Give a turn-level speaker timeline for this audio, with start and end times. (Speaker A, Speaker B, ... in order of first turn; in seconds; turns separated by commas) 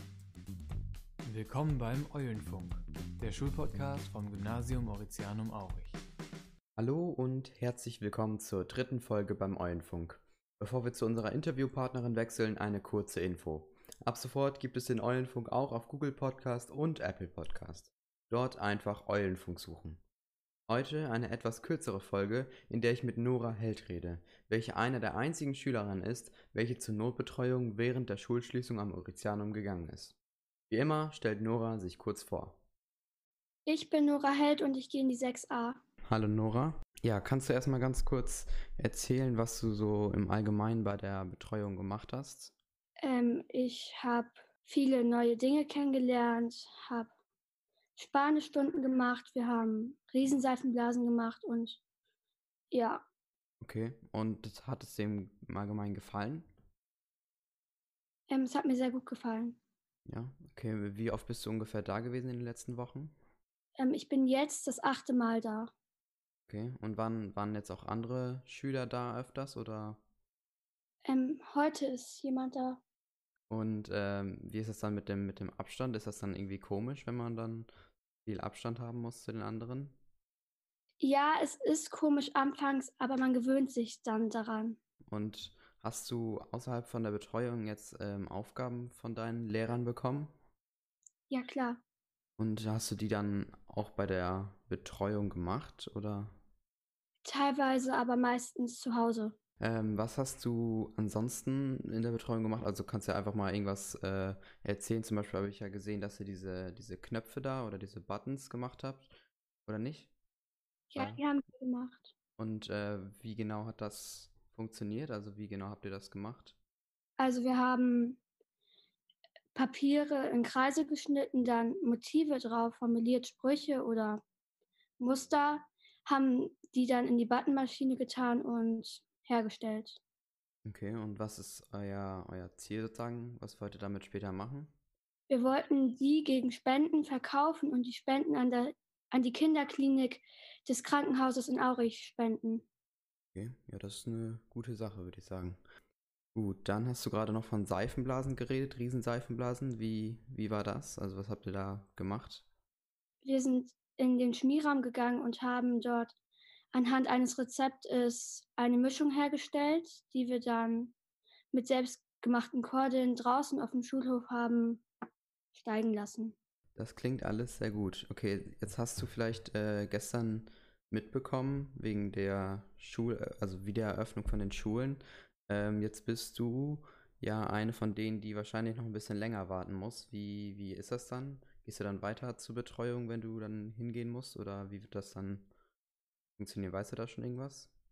Speaker A: 1.2-6.0, Speaker B: 6.8-20.0, Speaker B: 20.7-30.1, Speaker B: 30.7-32.6, Speaker C: 33.6-35.8, Speaker B: 36.1-42.5, Speaker C: 43.0-47.1, Speaker C: 48.0-51.8, Speaker C: 52.7-53.0, Speaker B: 53.6-56.5, Speaker C: 58.3-59.6, Speaker B: 60.1-63.1, Speaker C: 63.8-65.7, Speaker B: 66.5-70.0, Speaker C: 71.0-72.8, Speaker B: 73.5-77.7, Speaker B: 78.2-80.0, Speaker C: 81.0-84.8, Speaker B: 85.1-90.3, Speaker C: 91.3-91.8, Speaker B: 92.4-96.3, Speaker C: 97.2-99.3, Speaker B: 99.6-109.1, Speaker B: 109.7-110.1, Speaker C: 110.9-112.1, Speaker B: 111.0-111.2, Speaker B: 112.4-116.5, Speaker C: 117.2-118.2, Speaker C: 119.5-124.2, Speaker C: 125.0-130.0, Speaker B: 130.6-134.7, Speaker C: 135.3-142.6, Speaker B: 143.3-145.6, Speaker B: 146.3-152.4, Speaker C: 153.2-156.1, Speaker C: 156.7-160.9, Speaker C: 161.5-164.8, Speaker C: 165.5-166.3, Speaker B: 166.8-185.5, Speaker B: 186.4-187.7